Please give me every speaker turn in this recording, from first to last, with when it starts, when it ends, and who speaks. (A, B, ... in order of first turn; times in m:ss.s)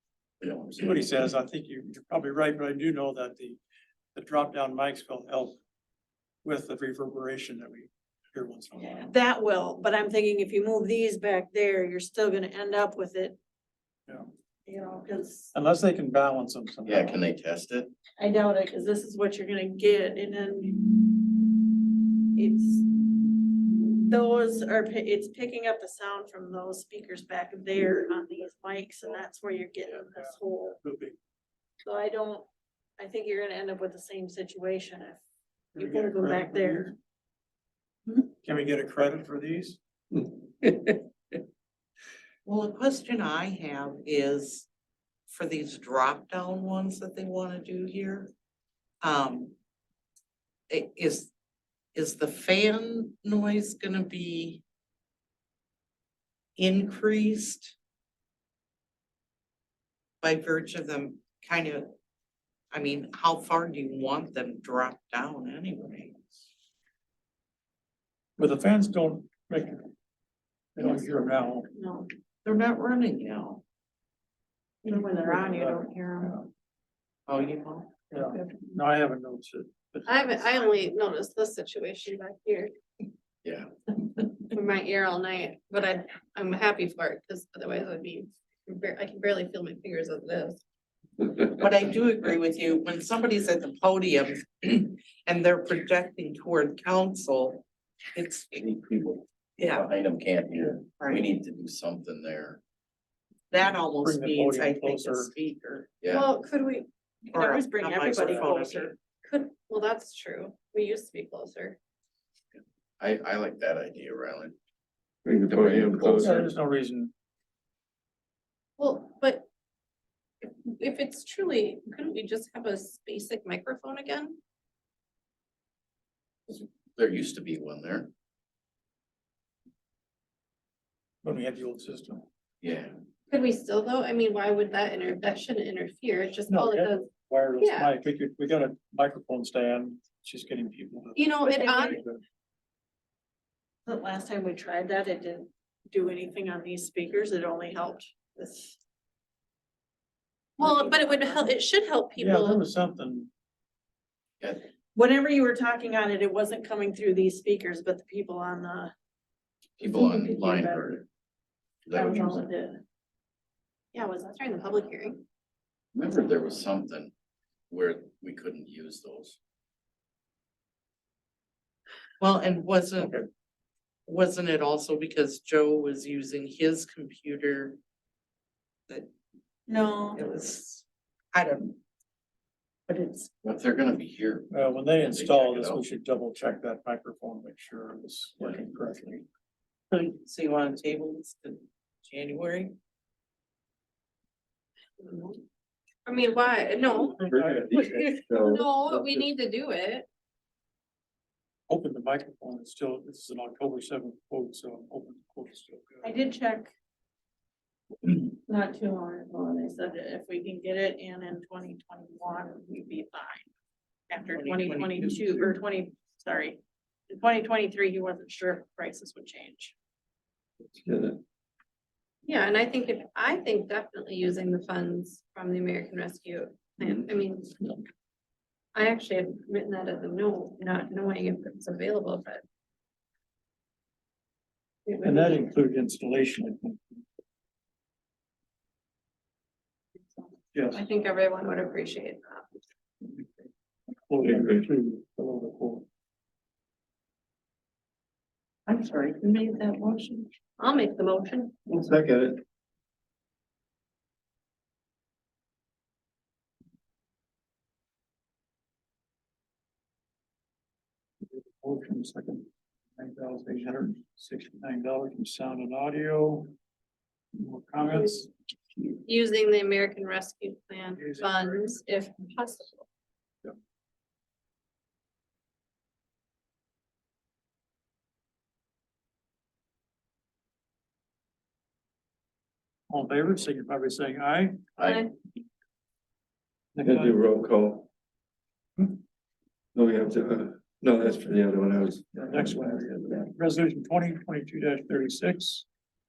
0:00.4-0:01.1 A
0:00.8-0:03.6 B
0:04.1-0:05.6 B
0:06.4-0:09.1 B
0:08.8-0:13.4 C
0:14.6-0:15.5 C
0:15.5-0:17.2 B
0:16.8-0:17.9 A
0:18.2-0:20.8 C
0:22.3-0:22.9 C
0:24.0-0:30.8 C
0:29.8-0:31.2 B
0:31.8-0:35.2 C
0:35.7-0:36.9 C
0:35.8-0:36.9 B
0:38.3-0:39.8 B
0:40.6-0:41.0 D
0:42.4-0:44.7 E
0:45.3-0:48.3 E
0:49.0-0:49.5 E
0:50.7-0:51.3 E
0:51.9-0:54.6 E
0:56.6-0:57.7 E
1:00.2-1:01.9 E
1:02.7-1:06.2 E
1:08.4-1:09.9 B
1:10.8-1:11.7 B
1:11.7-1:12.1 C
1:12.4-1:13.6 E
1:14.8-1:16.4 C
1:14.9-1:16.5 B
1:17.3-1:18.0 E
1:18.1-1:20.7 B
1:20.1-1:22.7 F
1:24.5-1:30.6 F
1:31.3-1:38.6 E
1:38.6-1:42.6 A
1:39.6-1:39.9 E
1:41.0-1:41.2 E
1:43.5-1:45.9 E
1:43.6-1:45.3 B
1:46.0-1:46.3 A
1:46.1-1:46.9 F
1:47.2-1:49.0 C
1:47.3-1:49.0 E
1:49.2-1:51.8 F
1:52.5-1:54.5 A
1:55.2-1:56.4 D
1:55.5-1:56.4 A
1:56.2-1:57.1 B
1:58.8-1:59.5 F
2:00.4-2:04.4 F
2:06.5-2:08.1 A
2:11.2-2:12.2 B
2:12.6-2:12.9 A
2:13.3-2:17.9 F
2:16.5-2:22.2 B
2:21.1-2:22.0 F
2:21.4-2:22.0 C
2:23.8-2:28.8 C
2:30.6-2:32.6 F
2:30.6-2:31.5 C
2:32.2-2:33.3 B
2:34.4-2:34.6 A
2:34.9-2:38.9 C
2:39.8-2:41.0 A
2:39.8-2:41.0 C
2:41.8-2:42.4 A
2:41.9-2:42.8 C
2:43.9-2:45.2 F
2:45.9-2:47.1 A
2:47.7-2:49.4 A
2:52.2-2:53.2 E
2:53.0-2:53.3 B
2:54.1-2:57.8 E
2:59.7-3:00.2 C
3:00.1-3:01.8 E
3:02.9-3:03.3 E
3:03.4-3:05.8 A
3:04.5-3:09.2 B
3:09.9-3:12.7 E
3:15.0-3:15.4 F
3:16.0-3:20.1 F
3:17.1-3:19.3 D
3:17.2-3:18.0 B
3:21.7-3:26.2 B
3:26.0-3:26.7 C
3:28.2-3:33.5 C
3:34.1-3:36.6 C
3:34.3-3:35.6 E
3:37.1-3:39.7 C
3:40.7-3:41.2 D
3:42.2-3:47.5 F
3:48.7-3:52.4 F
3:54.8-3:55.4 F
3:55.0-3:57.0 B
4:00.5-4:00.8 B
4:00.7-4:02.5 F
4:03.9-4:05.8 B
4:04.2-4:04.6 D
4:08.7-4:10.3 E
4:10.6-4:11.6 F
4:11.7-4:12.4 D
4:21.6-4:26.5 B
4:27.3-4:28.3 B
4:29.0-4:32.8 F
4:31.0-4:31.8 B
4:42.9-4:44.6 B
4:44.8-4:45.0 A
4:44.8-4:45.1 F
4:46.7-4:47.2 B
4:46.8-4:47.9 D
4:49.7-4:52.7 D
4:52.1-4:55.6 B